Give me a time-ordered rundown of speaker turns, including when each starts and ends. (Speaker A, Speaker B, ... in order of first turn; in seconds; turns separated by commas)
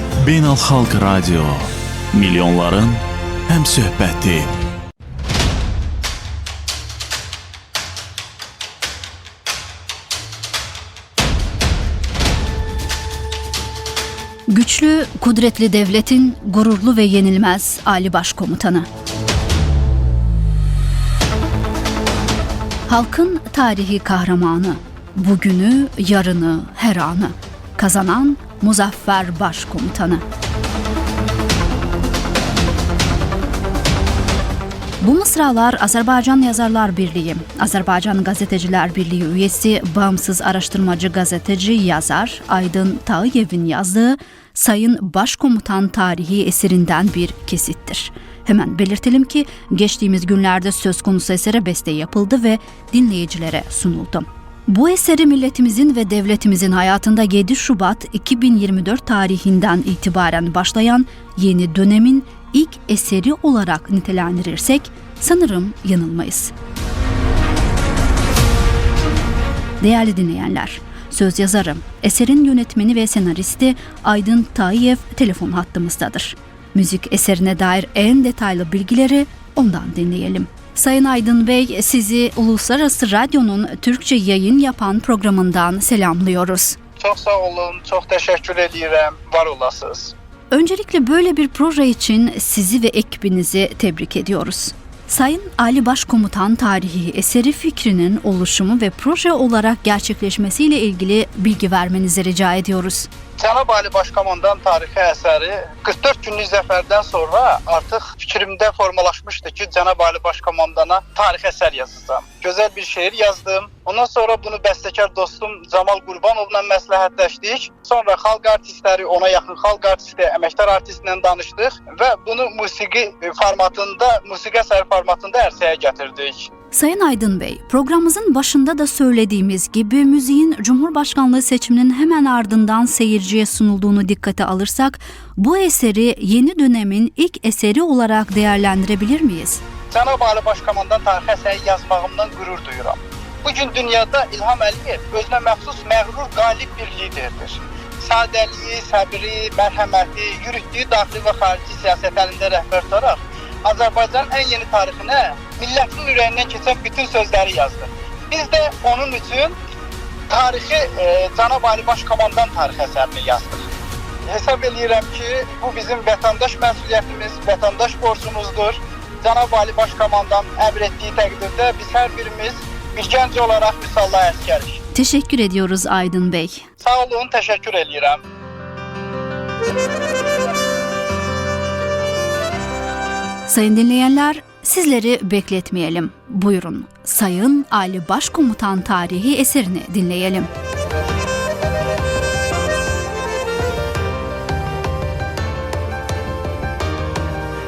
Speaker A: 0.2-4.5, Speaker B: 14.5-18.9, Speaker B: 22.9-30.2, Speaker B: 35.0-66.5, Speaker B: 69.8-86.8, Speaker C: 87.0-90.1, Speaker B: 90.5-103.1, Speaker C: 103.4-126.5, Speaker B: 126.7-139.6, Speaker C: 139.9-159.6, Speaker C: 160.3-163.7, Speaker C: 164.2-174.8, Speaker B: 174.9-176.7, Speaker C: 176.8-178.2, Speaker B: 183.5-190.5